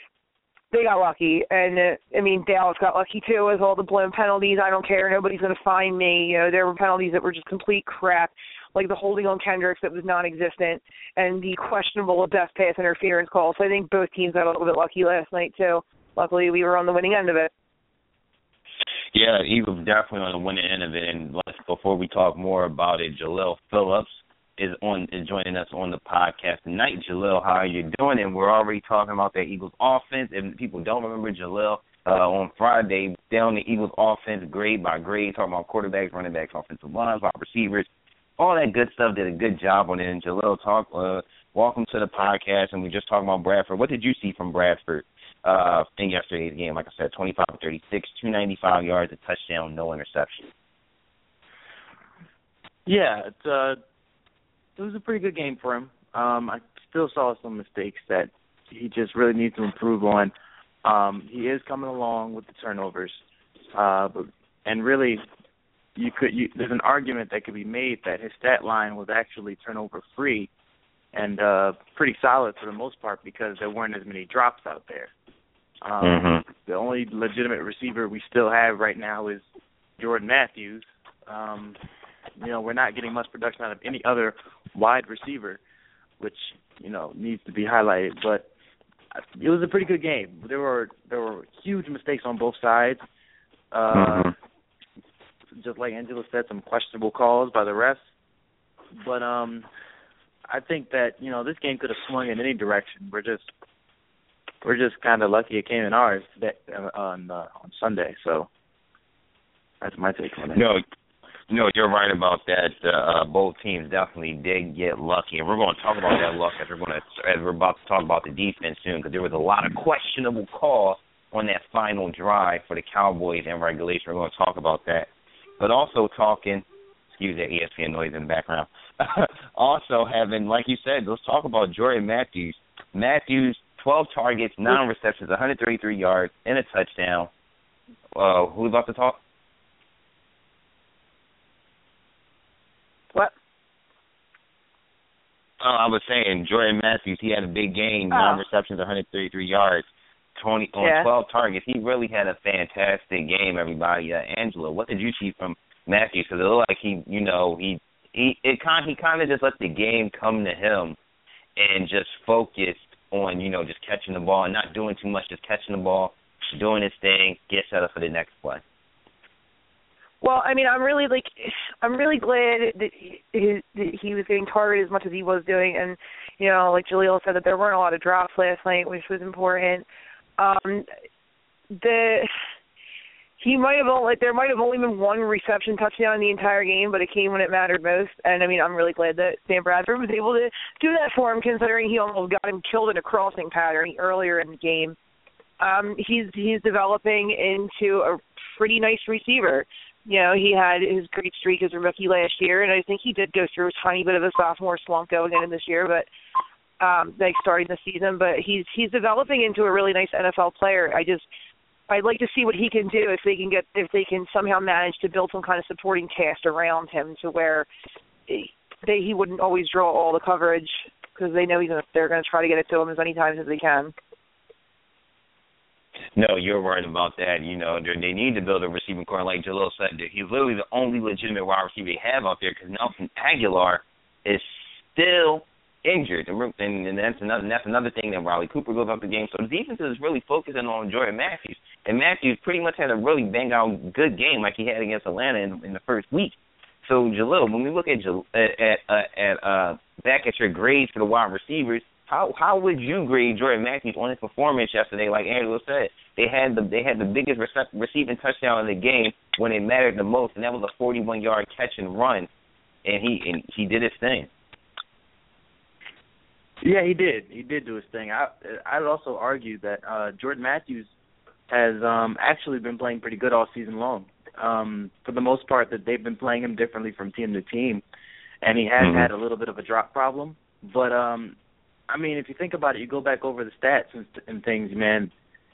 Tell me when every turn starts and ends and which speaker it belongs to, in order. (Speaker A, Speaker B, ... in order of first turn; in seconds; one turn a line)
Speaker A: 0.7-17.5
Speaker B: 19.1-50.5
Speaker C: 52.9-53.8
Speaker C: 54.8-60.3
Speaker C: 60.8-63.2
Speaker C: 63.7-65.3
Speaker C: 66.0-70.5
Speaker C: 71.1-75.1
Speaker C: 75.8-79.4
Speaker B: 76.0-76.4
Speaker C: 80.0-81.8
Speaker C: 82.4-85.6
Speaker C: 86.2-88.5
Speaker C: 89.2-93.0
Speaker C: 93.7-94.3
Speaker B: 93.9-94.3
Speaker C: 95.6-98.0
Speaker C: 99.0-99.7
Speaker C: 100.5-103.5
Speaker C: 104.6-108.5
Speaker C: 109.8-110.6
Speaker B: 110.5-110.8
Speaker B: 111.5-137.3
Speaker B: 138.2-139.2
Speaker B: 145.6-161.0
Speaker A: 148.1-148.4
Speaker A: 150.8-151.1
Speaker B: 161.6-168.6
Speaker A: 170.2-179.8
Speaker A: 180.4-180.9
Speaker A: 181.7-182.3
Speaker A: 183.4-195.0
Speaker A: 195.6-206.1
Speaker A: 206.8-211.3
Speaker A: 211.9-217.7
Speaker A: 218.3-223.9
Speaker B: 226.2-262.3
Speaker B: 262.9-264.3
Speaker C: 266.6-270.9
Speaker C: 271.5-277.8
Speaker C: 278.4-281.4
Speaker B: 278.8-279.1
Speaker C: 281.9-285.1